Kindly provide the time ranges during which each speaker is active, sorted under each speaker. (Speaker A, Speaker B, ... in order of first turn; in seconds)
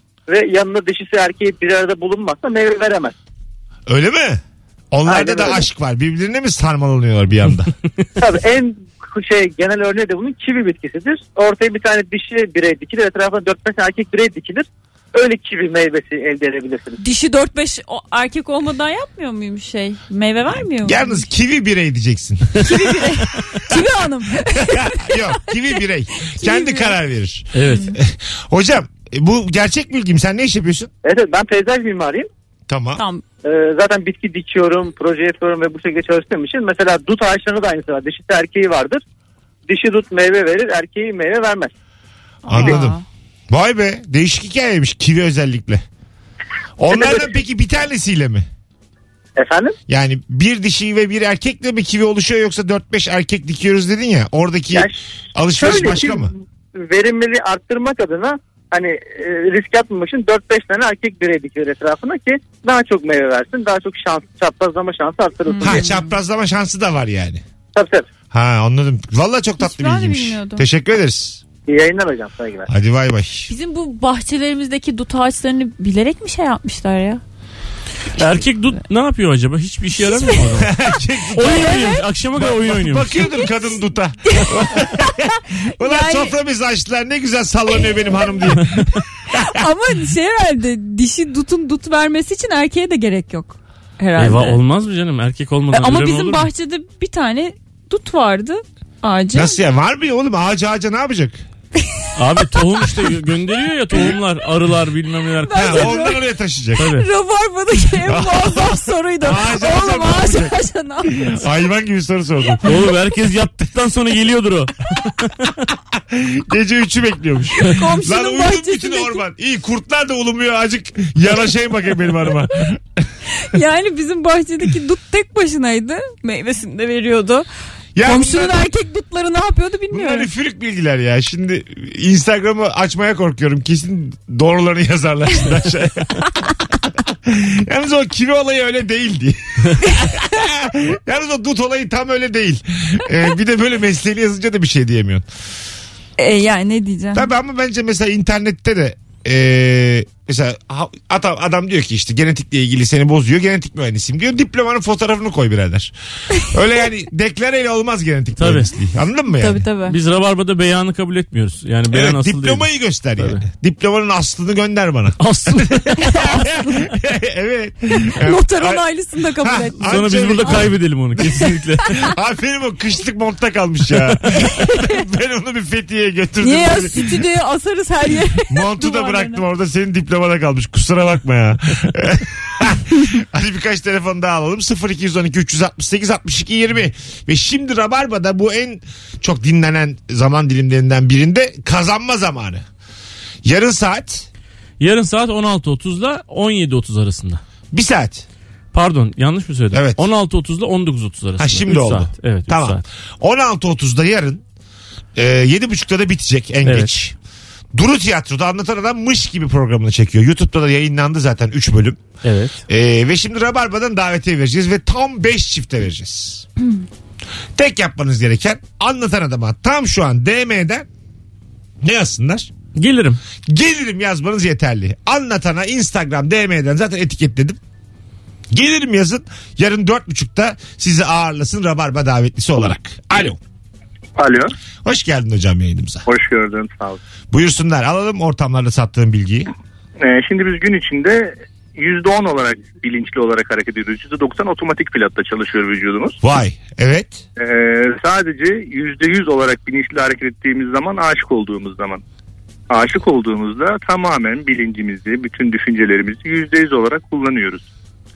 Speaker A: 0.3-3.1, 5.1-5.7, 8.2-17.0, 31.0-32.3, 33.4-39.0, 39.7-41.7, 42.5-42.8, 46.9-47.3, 49.4-49.8, 55.5-65.9, 67.8-68.1, 71.7-72.7
Speaker B: 3.9-4.4, 4.9-7.7, 20.8-23.2, 24.6-30.9, 32.7-33.0, 42.5-45.8, 46.8-48.5, 49.9-56.3, 65.6-67.4, 68.3-71.4, 72.7-73.5, 80.5-89.5, 99.3-101.4, 105.5-107.0, 108.1-110.5, 111.1-112.9, 115.9-122.8, 128.0-128.7, 129.9-136.4, 137.1-145.3, 147.1-159.6, 161.9-168.8, 169.4-177.2, 178.5-192.6, 193.4-194.3, 197.7-198.2, 199.7-200.0, 201.4-204.4, 205.2-207.2, 207.7-212.0, 212.7-216.5, 217.6-220.9, 221.8-222.5, 223.5-227.6, 228.5-233.4, 234.8-236.1, 237.3-239.5, 246.2-247.2
Speaker C: 17.0-21.3, 22.6-27.0, 27.7-27.9, 33.0-33.2, 42.5-43.0, 65.5-66.1, 69.6-70.7, 73.5-77.2, 80.0-80.5, 81.4-82.0, 83.2-83.7, 84.3-86.3, 89.3-94.6, 95.7-99.6, 105.4-106.2, 107.0-111.4, 117.6-119.2, 123.3-127.5, 128.0-130.3, 146.2-147.3, 159.3-160.0, 166.0-166.9, 168.2-170.7, 174.3-175.0, 176.4-179.4
Speaker D: 27.5-27.9, 78.2-80.7, 81.4-83.2, 94.2-96.5, 102.2-106.0, 106.8-107.1, 112.6-115.5, 158.4-158.7, 159.8-163.4, 165.2-166.1, 169.8-171.9, 194.8-197.4, 198.7-202.8, 206.7-206.9, 212.2-212.6, 222.8-223.2
Speaker E: 234.2-234.5, 236.1-237.0, 240.0-246.2, 247.4-252.0, 252.7-257.7